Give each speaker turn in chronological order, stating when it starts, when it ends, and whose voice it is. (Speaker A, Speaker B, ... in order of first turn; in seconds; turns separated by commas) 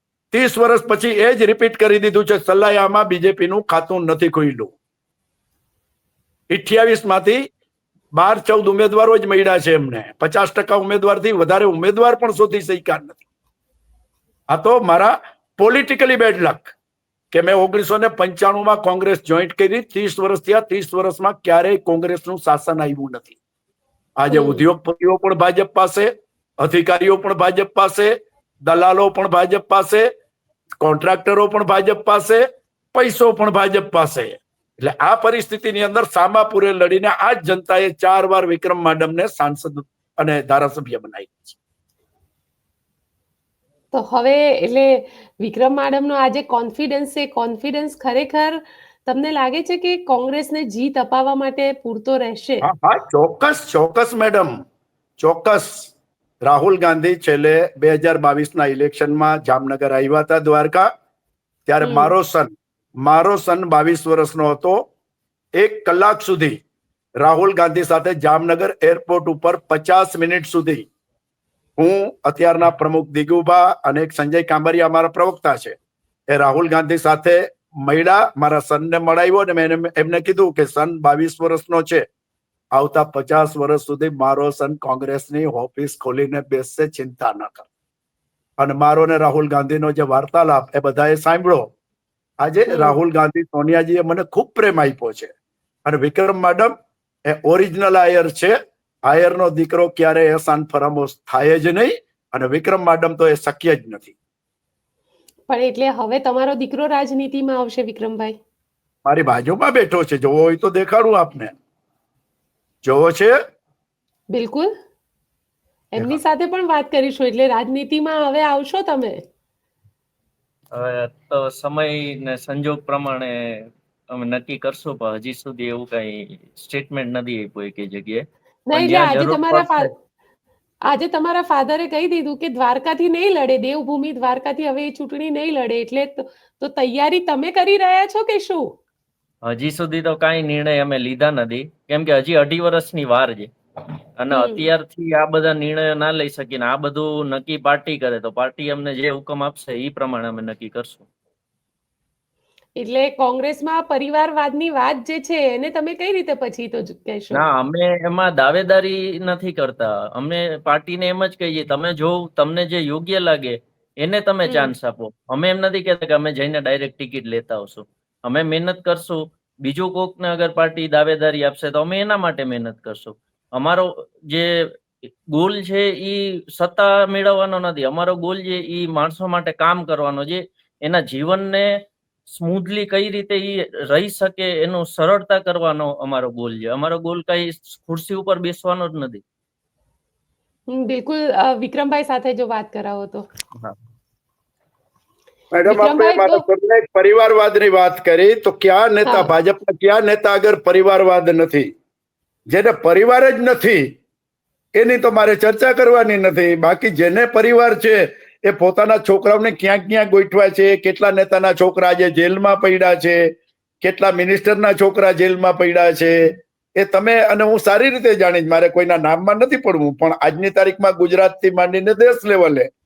Speaker A: 0.3-4.7, Speaker A: 6.5-7.4, Speaker A: 8.1-13.2, Speaker A: 14.5-16.7, Speaker A: 17.3-23.4, Speaker A: 24.2-26.1, Speaker B: 24.3-24.6, Speaker A: 26.6-28.1, Speaker A: 28.6-30.1, Speaker A: 30.8-41.6, Speaker B: 43.9-52.6, Speaker A: 52.6-54.5, Speaker A: 55.2-55.9, Speaker A: 56.4-60.9, Speaker A: 61.7-62.5, Speaker B: 61.8-62.1, Speaker A: 63.0-64.8, Speaker A: 65.5-66.6, Speaker A: 67.2-70.8, Speaker A: 71.8-75.8, Speaker A: 76.3-82.0, Speaker A: 82.7-87.7, Speaker A: 88.6-91.7, Speaker A: 92.4-95.3, Speaker B: 92.7-92.9, Speaker A: 95.8-96.7, Speaker A: 97.3-98.5, Speaker A: 99.0-104.1, Speaker B: 105.5-108.4, Speaker A: 109.0-111.5, Speaker A: 112.8-113.3, Speaker B: 114.3-114.7, Speaker B: 115.9-119.2, Speaker C: 120.7-129.9, Speaker B: 128.7-129.9, Speaker B: 130.8-138.7, Speaker C: 139.4-143.5, Speaker C: 144.2-151.1, Speaker B: 144.3-144.7, Speaker B: 152.8-157.4, Speaker C: 157.3-174.5, Speaker B: 164.4-164.7, Speaker C: 175.3-189.2, Speaker B: 190.7-193.2, Speaker A: 195.5-201.7, Speaker B: 195.7-196.4, Speaker A: 202.5-203.9, Speaker A: 204.8-213.3, Speaker A: 213.8-222.7